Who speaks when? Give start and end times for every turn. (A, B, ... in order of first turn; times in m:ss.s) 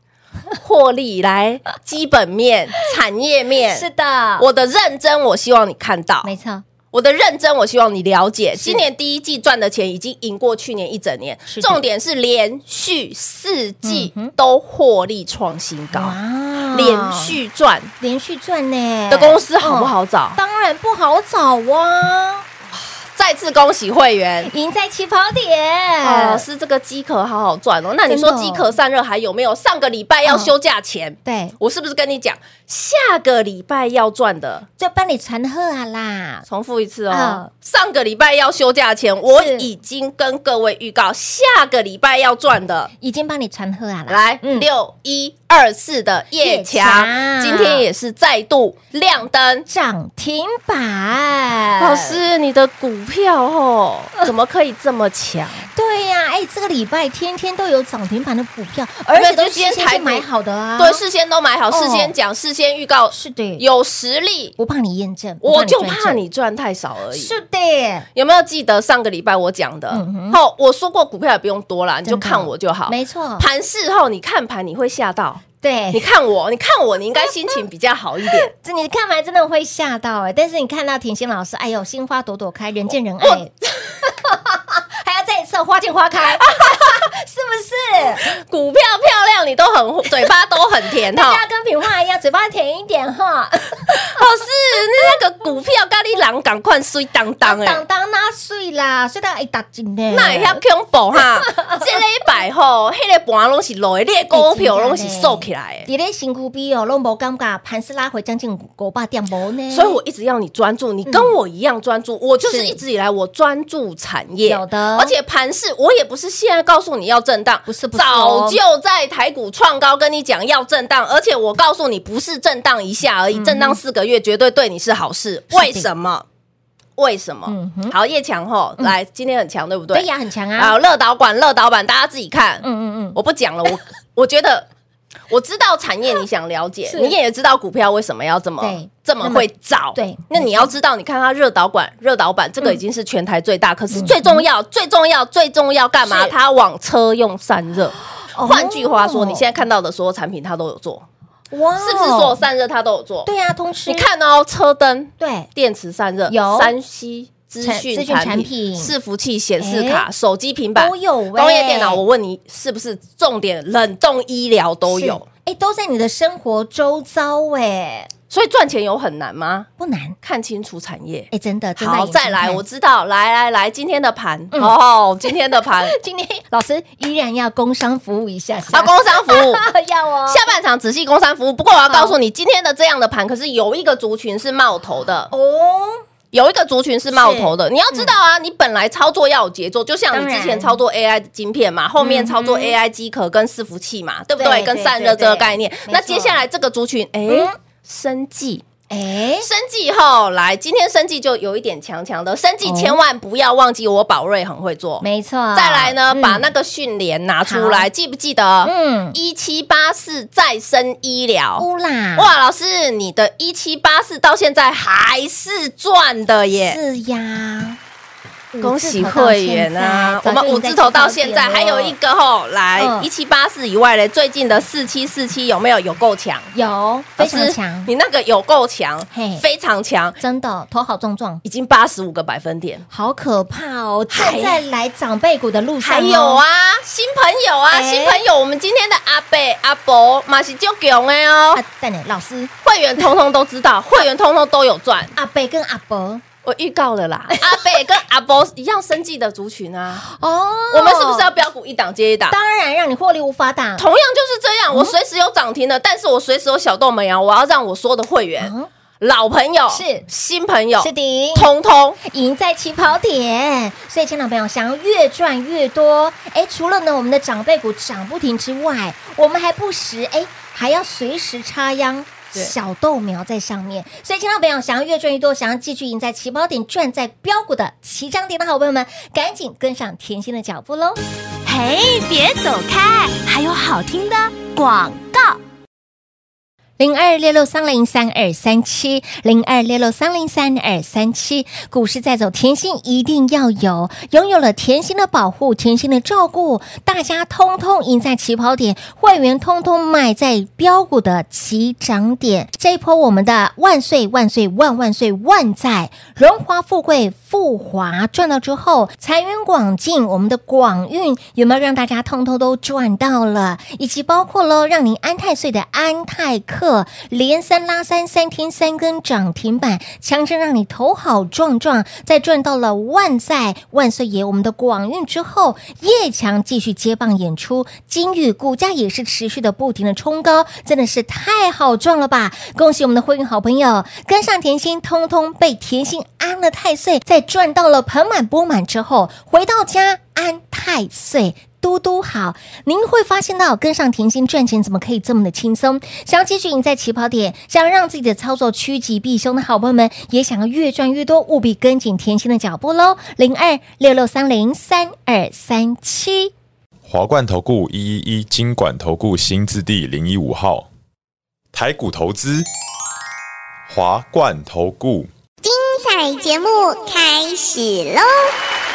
0:00.6-0:03.9 A
0:03.7-0:04.4 B
0:04.4-0:06.3 A
0:06.2-0:06.6 B
0:06.9-0:16.2 A
0:08.6-0:08.8 B
0:11.5-0:11.8 B
0:13.8-0:14.3 B
0:15.9-0:17.4 B
0:16.7-0:17.9 A
0:18.0-0:22.5 B
0:19.1-0:20.4 A
0:22.8-0:24.5 A
0:24.5-0:26.4 B
0:26.0-0:34.6 A
0:28.1-0:28.7 B
0:30.2-0:30.5 B
0:31.2-0:31.6 B
0:34.8-0:36.4 B
0:36.5-0:42.9 A
0:37.1-0:37.5 B
0:39.3-0:39.7 B
0:43.0-0:44.7 B
0:44.1-0:49.6 A
0:46.4-0:47.8 B
0:49.7-0:52.2 B
0:51.8-0:55.7 A
0:55.7-1:01.0 B
0:59.1-1:00.2 A
1:00.8-1:04.5 A
1:01.7-1:02.1 B
1:03.1-1:03.6 B
1:04.6-1:06.2 B
1:05.4-1:07.3 A
1:07.1-1:08.0 B
1:08.1-1:18.5 A
1:09.9-1:10.4 B
1:12.0-1:13.5 B
1:15.6-1:16.0 B
1:18.3-1:28.3 B
1:26.5-1:27.0 A
1:28.2-1:31.4 A
1:31.1-1:34.2 B
1:34.1-1:37.8 A
1:37.4-1:40.6 B
1:40.1-1:45.9 A
1:41.5-1:41.8 B
1:44.3-1:50.0 B
1:49.7-2:06.2 A
1:51.0-1:51.3 B
1:52.4-1:52.8 B
1:54.5-1:55.1 B
1:57.7-1:58.6 B
2:03.3-2:03.8 B
2:05.5-2:05.9 B
2:07.0-2:10.1 A
2:07.5-2:08.0 B
2:09.9-2:10.8 B
2:10.6-2:12.6 A
2:12.6-2:13.2 B
2:13.1-2:14.7 A
2:15.3-2:31.0 A
2:18.6-2:20.7 B
2:23.9-2:24.4 B
2:26.0-2:26.3 B
2:28.3-2:29.5 B
2:31.5-2:32.4 B
2:31.8-2:33.3 A
2:33.2-2:34.1 B
2:33.9-2:45.2 A
2:35.2-2:35.5 B
2:36.3-2:36.7 B
2:37.6-2:38.9 B
2:39.6-2:40.0 B
2:40.8-2:42.0 B
2:44.9-2:48.1 B
2:48.3-2:49.7 A
2:49.8-2:50.2 B
2:50.2-2:56.0 A
2:51.3-2:52.6 B
2:55.9-3:00.5 B
2:58.7-2:59.7 A
3:00.3-3:05.3 A
3:01.9-3:02.2 B
3:05.3-3:06.0 B
3:06.3-3:18.6 A
3:07.1-3:08.1 B
3:10.1-3:10.8 B
3:12.0-3:12.8 B
3:14.4-3:16.4 B
3:17.3-3:17.5 B
3:18.9-3:19.5 B
3:19.4-3:31.6 A
3:22.6-3:23.0 B
3:25.0-3:26.5 B
3:27.4-3:27.9 B
3:28.6-3:29.2 B
3:31.6-3:32.3 B
3:32.2-3:36.8 A
3:36.6-3:37.8 B
3:38.5-3:42.0 B
3:38.6-3:46.5 A
3:42.8-3:43.1 B
3:46.5-3:47.9 B
3:47.2-3:50.2 A
3:49.1-3:49.4 B
3:50.2-3:51.4 B
3:51.4-3:52.8 A
3:52.9-3:56.4 B
3:54.1-3:54.6 A
3:55.8-4:01.6 A
3:57.7-3:58.2 B
4:01.5-4:02.5 B
4:02.6-4:05.1 A
4:05.2-4:06.2 B
4:06.4-4:10.0 A
4:07.3-4:07.8 B
4:10.0-4:11.3 B
4:10.7-4:12.4 A
4:12.3-4:13.8 B
4:13.8-4:22.0 A
4:18.4-4:18.7 B
4:19.7-4:20.0 B
4:20.8-4:21.5 B
4:22.0-4:41.0 B
4:41.5-4:45.4 C
4:46.8-5:56.3 B
5:56.9-6:00.7 D
6:01.5-6:02.5 D
6:03.7-6:05.1 D
6:05.4-6:08.3 E